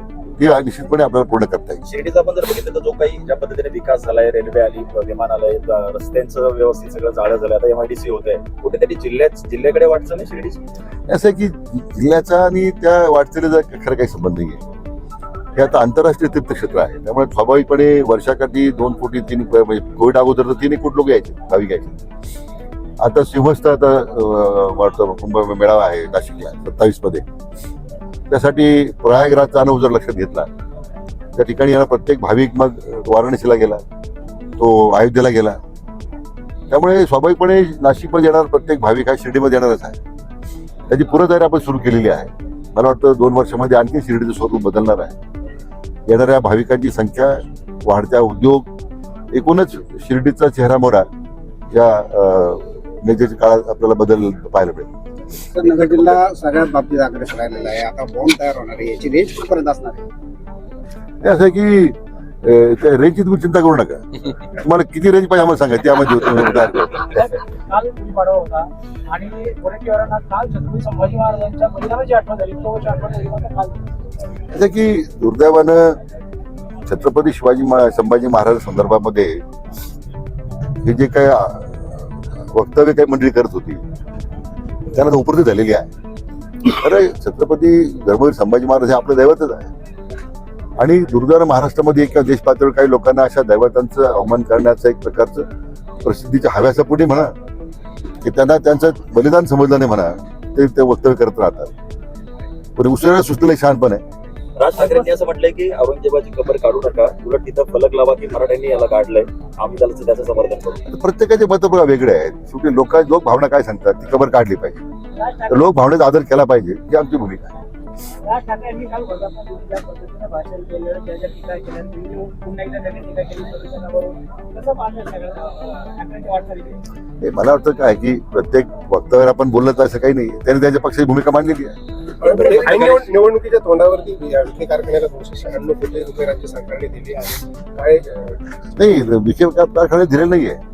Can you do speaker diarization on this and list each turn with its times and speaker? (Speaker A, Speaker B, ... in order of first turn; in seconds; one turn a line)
Speaker A: 0.4-1.8
Speaker B: 1.9-10.6
Speaker A: 11.1-14.6
Speaker A: 15.6-21.9
Speaker A: 23.0-27.2
Speaker A: 28.3-30.5
Speaker A: 31.4-33.8
Speaker A: 34.6-35.6
Speaker A: 36.7-40.0
Speaker A: 40.9-45.1
Speaker A: 46.1-48.7
Speaker A: 49.3-51.0
Speaker A: 51.7-54.9
Speaker C: 55.5-60.0
Speaker A: 55.6-56.2
Speaker A: 61.2-67.3
Speaker D: 67.7-73.8
Speaker A: 74.5-76.0
Speaker A: 76.9-79.4
Speaker A: 80.8-83.8
Speaker A: 84.9-85.9
Speaker A: 86.7-89.7
Speaker A: 90.8-95.5
Speaker A: 96.0-97.3
Speaker A: 98.2-101.7
Speaker A: 102.8-104.0
Speaker B: 104.6-110.8
Speaker A: 110.9-114.8
Speaker A: 115.5-117.5
Speaker D: 118.3-126.8
Speaker A: 127.2-131.7
Speaker E: 132.2-138.4
Speaker A: 138.8-140.6